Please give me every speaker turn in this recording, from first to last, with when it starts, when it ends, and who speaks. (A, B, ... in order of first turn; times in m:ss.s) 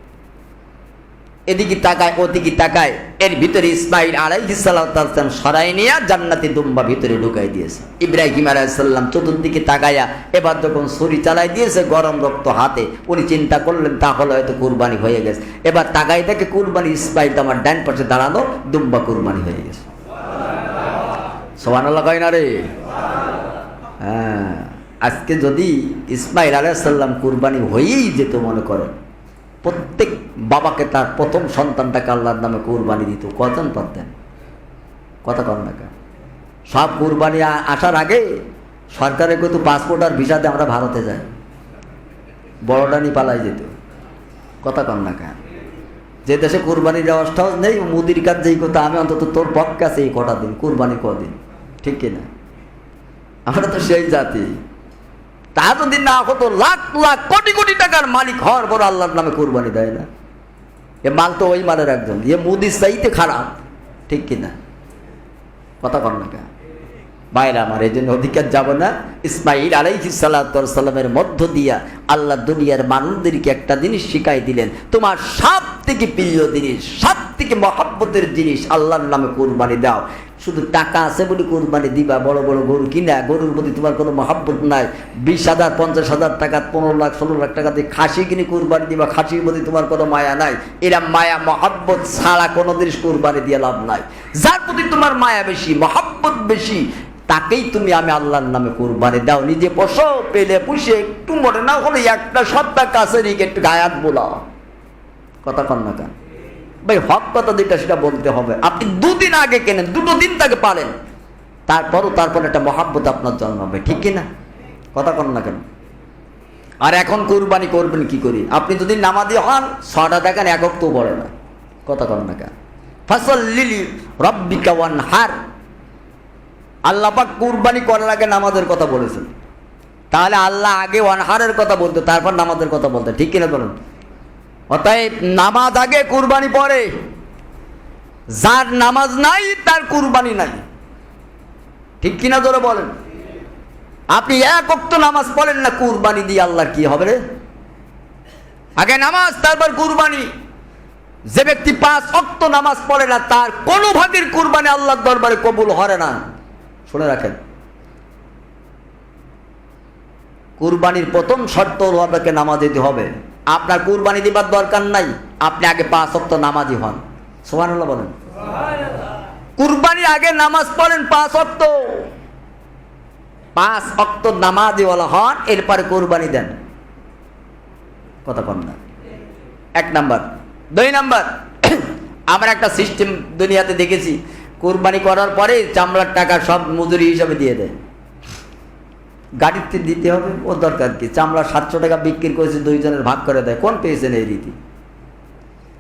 0:01.5-0:19.9 A
0:21.6-0:22.7 A
0:24.0-0:28.9 A
0:29.6-0:34.1 A
0:35.2-0:35.9 A
0:36.7-0:38.4 A
0:38.9-0:41.2 A
0:42.6-0:43.7 A
0:44.6-0:45.4 A
0:46.2-0:52.2 A
0:53.5-0:54.5 A
0:55.5-1:00.1 A
1:01.0-1:04.5 A
1:05.8-1:06.5 A
1:07.3-1:44.4 A
1:45.4-1:46.1 A
1:46.8-1:50.9 A
1:51.7-1:54.2 A
1:54.9-1:55.6 A
1:56.8-2:01.3 A
2:01.8-2:02.5 A
2:03.1-2:05.3 A
2:06.8-2:09.3 A
2:10.1-2:13.8 A
2:14.7-2:16.9 A
2:18.3-2:20.6 A
2:22.0-2:22.9 A
2:24.1-2:27.2 A
2:28.8-2:30.3 A
2:31.3-2:36.2 A
2:36.9-2:37.4 A
2:40.6-2:48.1 A
2:49.6-2:52.1 A
2:53.6-2:56.5 A
2:58.2-2:58.8 A
2:59.8-3:07.7 A
3:09.4-3:14.5 A